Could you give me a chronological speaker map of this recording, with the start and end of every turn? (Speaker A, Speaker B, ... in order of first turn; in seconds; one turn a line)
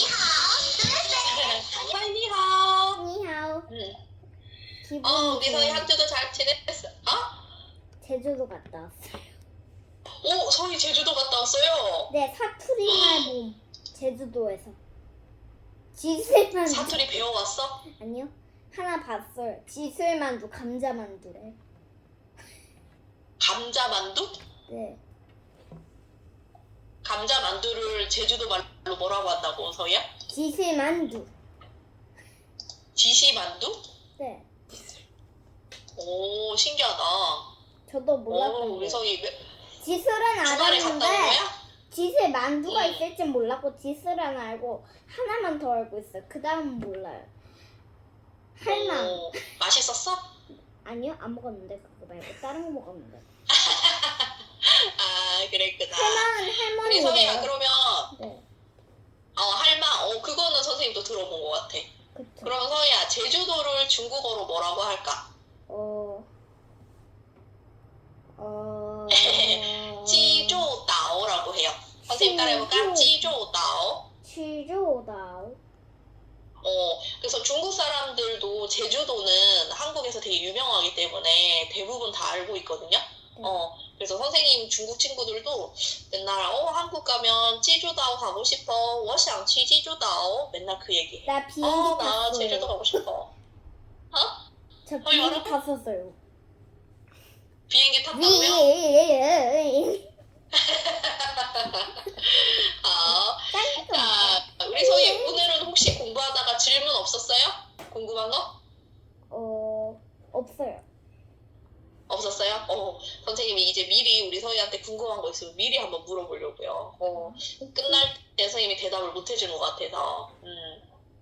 Speaker A: 1.1-3.0
Speaker B: 3.0-3.7
Speaker A: 3.7-4.0
Speaker B: 4.8-5.9
Speaker A: 5.0-7.4
Speaker B: 8.0-9.3
Speaker A: 10.2-12.1
Speaker B: 12.1-14.8
Speaker A: 12.9-13.3
Speaker B: 15.9-17.2
Speaker A: 16.7-17.9
Speaker B: 17.9-21.6
Speaker A: 23.4-24.4
Speaker B: 24.7-25.0
Speaker A: 27.0-30.1
Speaker B: 30.3-31.3
Speaker A: 33.0-33.8
Speaker B: 34.2-34.5
Speaker A: 36.0-37.5
Speaker B: 37.9-39.0
Speaker A: 38.3-39.5
Speaker B: 39.8-47.3
Speaker A: 40.4-41.6
Speaker A: 42.7-43.0
Speaker B: 48.6-49.5
Speaker A: 48.7-50.3
Speaker B: 50.9-53.2
Speaker A: 53.5-58.1
Speaker B: 55.9-57.5
Speaker B: 58.1-58.5
Speaker A: 59.4-61.9
Speaker B: 62.1-62.5
Speaker A: 62.4-65.3
Speaker B: 65.7-66.3
Speaker B: 68.4-70.7
Speaker A: 69.1-74.1
Speaker B: 72.0-73.4
Speaker B: 74.2-75.6
Speaker A: 76.6-93.3
Speaker B: 91.3-93.0
Speaker A: 94.1-94.4
Speaker B: 94.9-96.2
Speaker A: 95.0-95.5
Speaker A: 97.7-98.7
Speaker B: 98.1-100.1
Speaker A: 100.5-108.6
Speaker B: 102.0-102.5
Speaker B: 103.1-105.5
Speaker B: 109.3-110.8
Speaker A: 112.1-120.8
Speaker B: 117.1-118.1